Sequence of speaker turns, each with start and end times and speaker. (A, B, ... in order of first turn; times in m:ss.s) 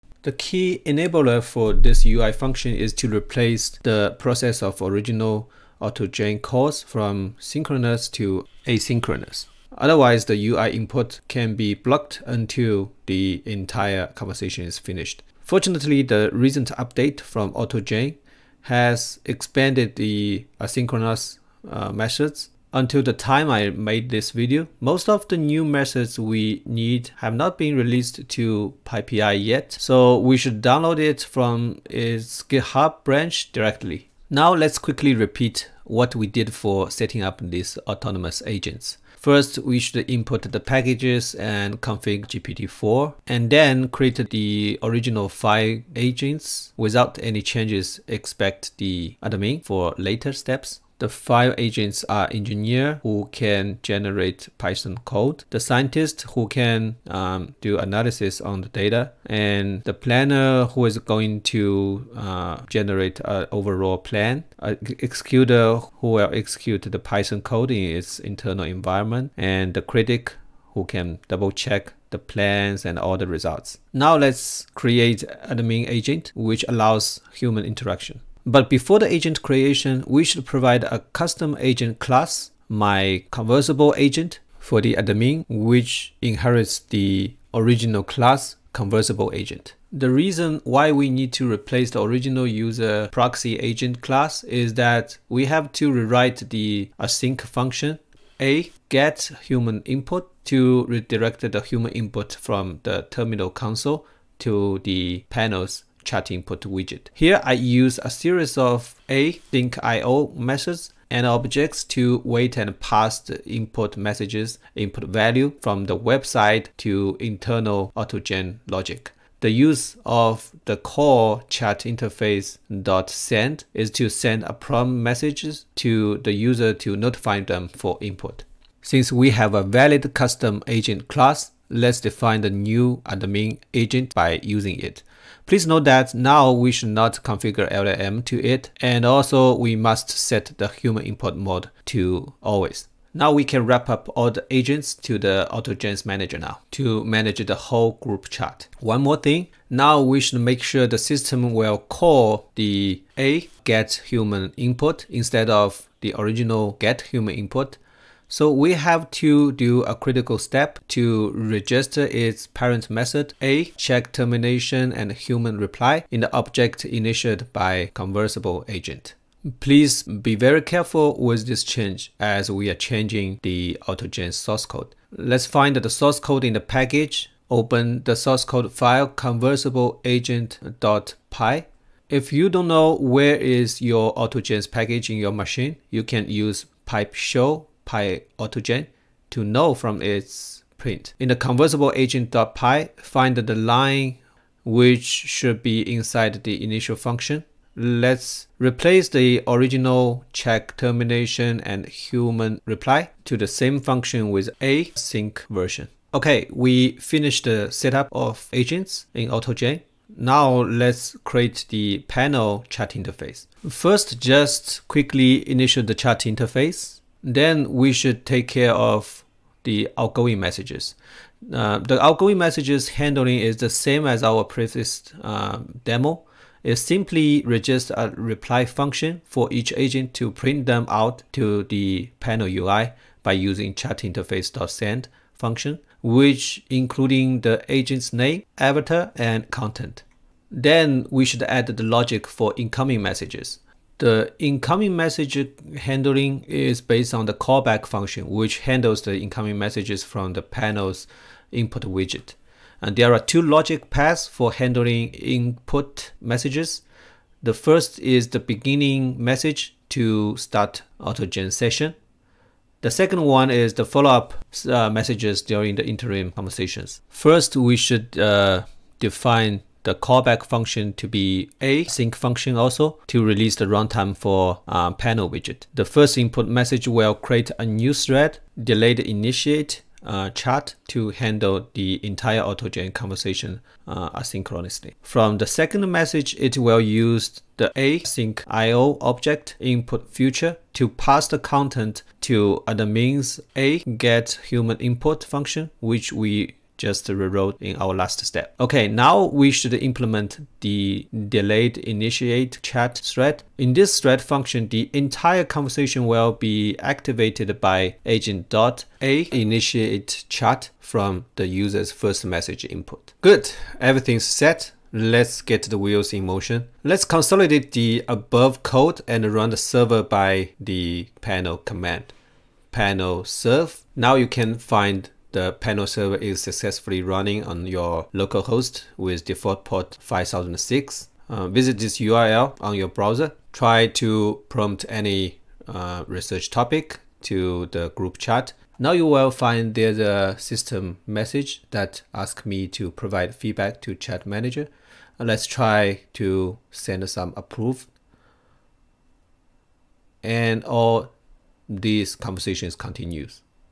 0:00.2-4:16.8 A
4:17.4-4:22.0 A
4:22.8-5:22.1 A
5:22.7-5:47.9 A
5:50.2-5:51.1 A
5:51.7-5:53.4 A